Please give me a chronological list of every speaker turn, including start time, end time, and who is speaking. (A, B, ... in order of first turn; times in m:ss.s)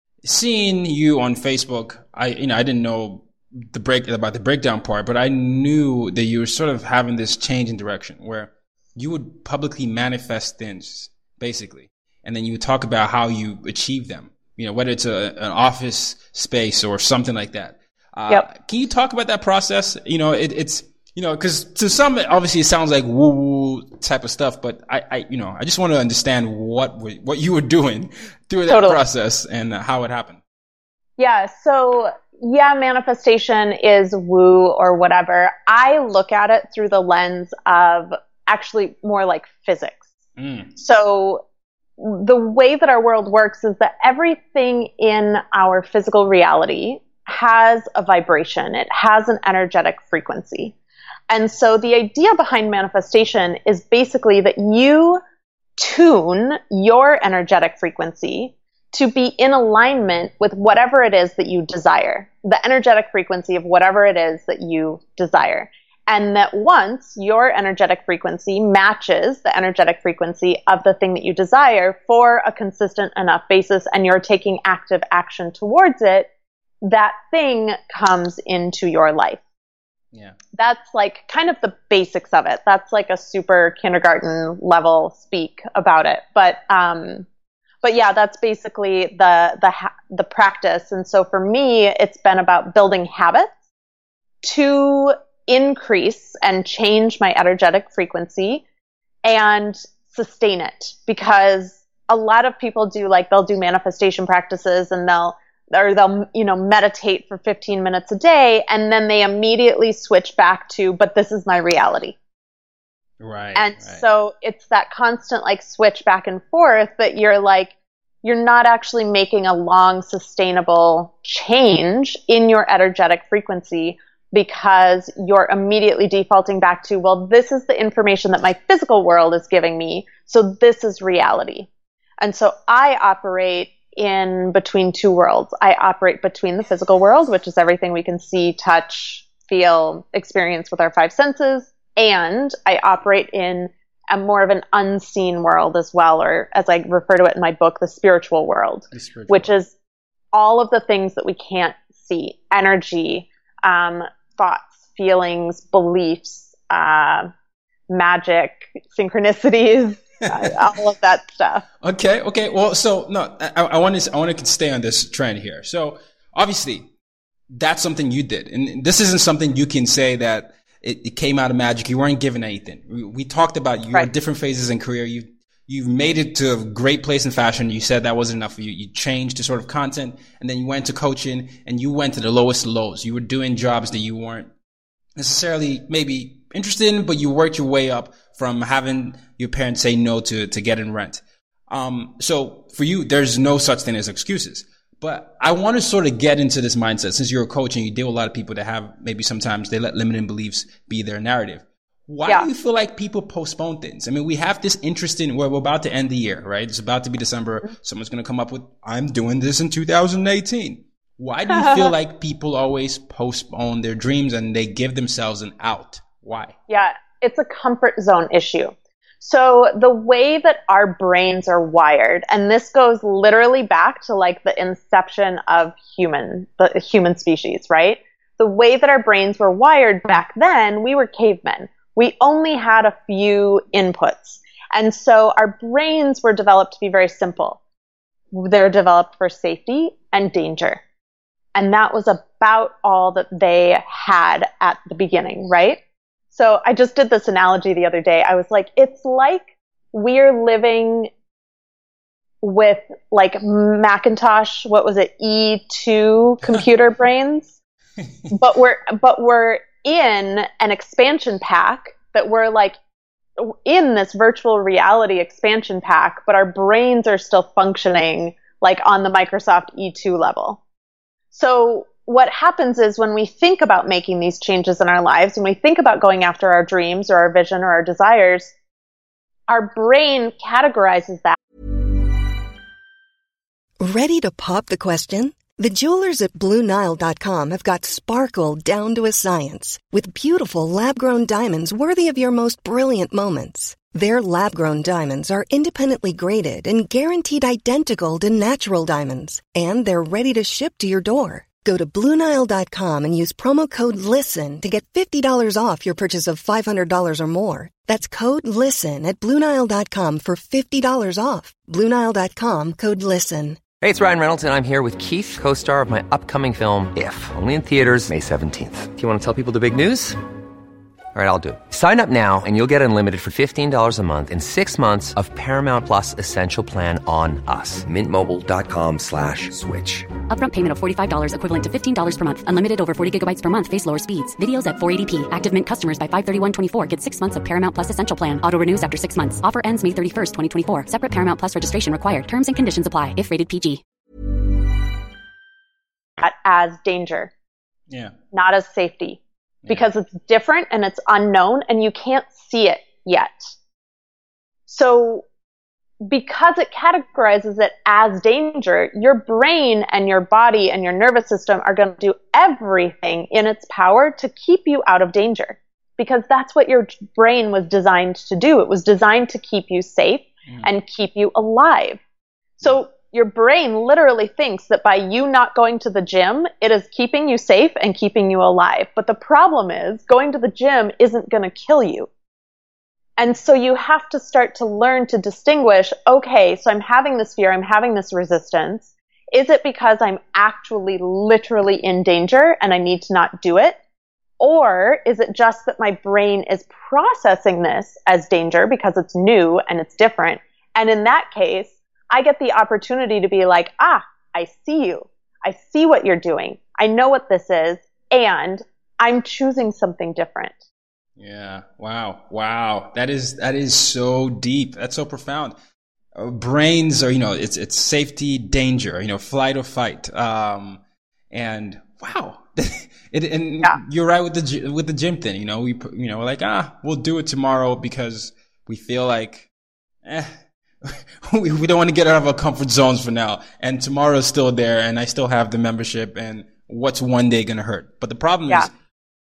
0:00.2-0:30.4 A
0:28.7-0:29.0 B
0:31.2-0:40.0 B
0:40.4-0:40.7 A
0:40.8-0:41.4 B
0:42.0-0:50.7 B
0:51.3-0:55.2 B
0:55.8-1:16.3 B
1:16.8-1:19.4 B
1:20.1-1:20.4 A
1:20.6-1:27.3 B
1:27.8-1:33.5 B
1:34.4-1:38.6 B
1:39.2-1:52.2 B
1:53.2-1:54.1 A
1:53.6-2:11.7 B
2:12.2-2:29.7 B
2:28.9-2:29.5 A
2:30.3-2:37.3 B
2:37.9-2:41.6 B
2:41.8-2:46.9 A
2:47.5-3:04.5 A
3:05.2-3:36.6 A
3:31.5-3:31.9 B
3:36.7-3:57.6 B
3:58.3-4:00.8 B
4:01.6-4:05.8 B
4:06.3-4:11.1 B
4:12.4-4:17.5 B
4:18.3-4:22.8 B
4:23.4-4:30.6 B
4:31.3-4:38.5 B
4:39.5-4:41.4 B
4:43.8-5:13.6 C
5:13.8-5:20.2 D
5:21.1-5:30.2 D
5:30.3-5:43.8 E
5:46.2-5:47.3 B
5:47.9-5:48.2 A
5:48.3-5:53.5 B
5:54.7-5:55.2 B
5:56.0-6:12.0 B
6:12.6-6:22.1 B
6:23.2-6:33.8 B
6:34.4-6:50.6 B
6:51.2-6:55.6 A
6:56.2-7:00.8 A
7:01.3-7:09.5 A
7:10.0-7:18.7 A